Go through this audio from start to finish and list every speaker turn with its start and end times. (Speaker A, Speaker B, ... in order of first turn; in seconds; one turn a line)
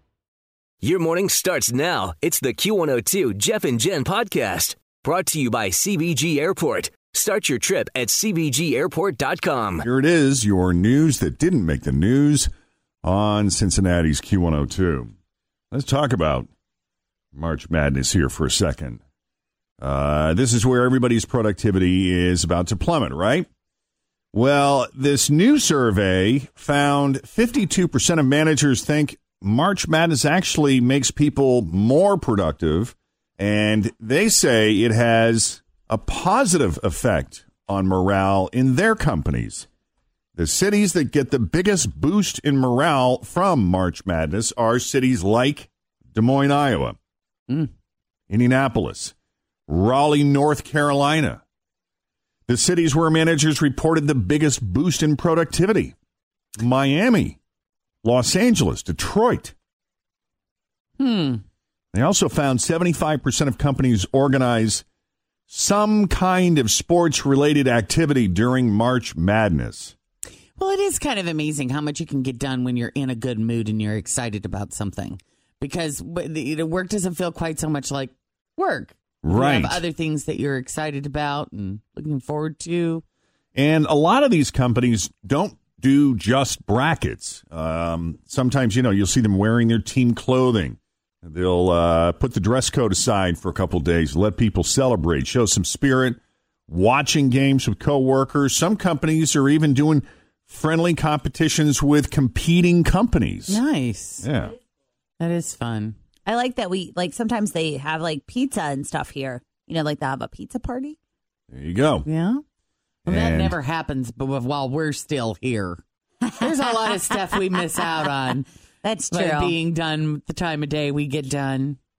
Speaker A: 0.8-9.8
Speaker B: 9.8-12.5
Speaker B: 13.0-15.1
Speaker B: 15.7-16.5
Speaker B: 17.3-19.0
Speaker B: 19.8-23.5
Speaker B: 24.3-39.7
Speaker B: 40.4-47.0
Speaker B: 48.3-49.1
Speaker B: 49.7-51.4
Speaker B: 52.5-55.9
Speaker B: 56.6-57.4
Speaker B: 58.0-59.5
Speaker C: 61.0-61.4
Speaker B: 61.9-64.8
Speaker B: 65.5-69.9
Speaker C: 70.6-83.0
Speaker B: 79.2-79.8
Speaker B: 83.5-103.6
Speaker C: 103.5-104.3
Speaker B: 104.2-104.5
Speaker C: 105.2-106.0
Speaker D: 106.2-111.0
Speaker B: 111.5-112.1
Speaker C: 112.0-112.4
Speaker C: 113.0-115.8
Speaker B: 113.0-113.6
Speaker C: 116.4-118.5
Speaker D: 116.4-116.7
Speaker D: 118.8-119.6
Speaker C: 119.1-121.8